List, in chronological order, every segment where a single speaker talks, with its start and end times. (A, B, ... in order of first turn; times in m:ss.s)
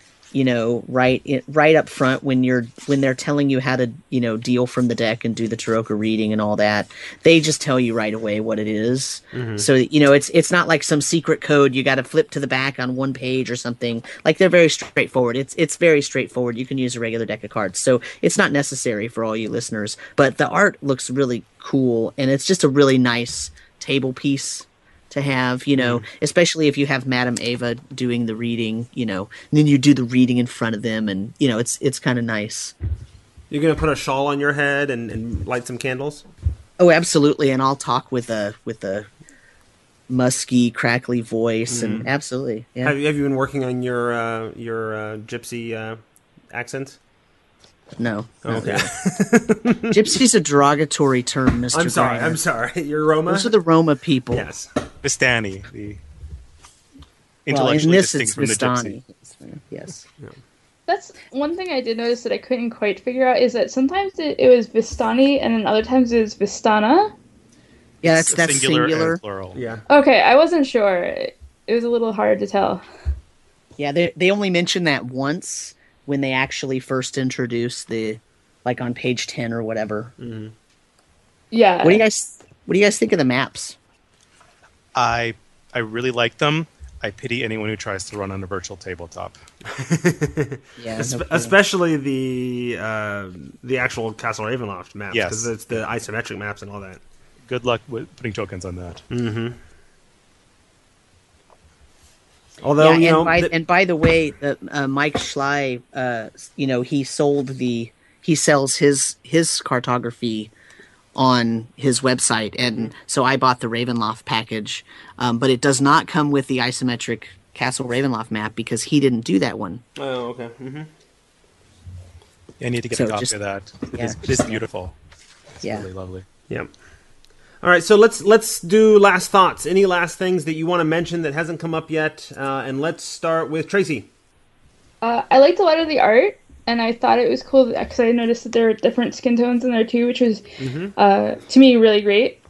0:00.3-0:32.7 A
0:09.3-0:09.7 B
0:25.7-0:26.0 B
0:33.5-0:36.2 B
0:36.8-0:39.1 A
0:40.1-0:42.9 A
0:41.7-0:42.1 B
0:42.8-0:46.0 B
0:46.5-0:47.0 B
0:48.0-0:48.9 A
0:48.4-0:50.2 B
0:49.9-0:52.4 A
0:51.7-0:53.5 B
0:53.3-0:54.5 A
0:54.3-0:54.7 B
0:55.0-0:56.0 C
0:57.4-0:58.9 C
0:57.5-1:00.0 A
1:00.9-1:07.1 D
1:08.0-1:09.2 A
1:08.0-1:09.6 C
1:09.5-1:09.8 B
1:09.9-1:12.8 D
1:13.8-1:20.1 A
1:20.2-1:20.5 B
1:21.5-1:22.0 D
1:21.8-1:23.8 A
1:24.9-1:29.4 C
1:29.7-1:37.0 B
1:30.8-1:31.5 A
1:35.1-1:35.8 C
1:37.5-1:39.0 C
1:39.1-1:39.6 B
1:42.6-1:43.5 B
1:42.8-1:50.5 A
1:51.1-1:59.8 A
2:00.0-2:00.9 B
2:02.6-2:05.0 C
2:02.9-2:03.3 A
2:03.9-2:04.6 A
2:05.6-2:06.2 C
2:07.6-2:14.1 B
2:15.0-2:20.4 D
2:20.6-2:20.9 B
2:21.0-2:22.4 D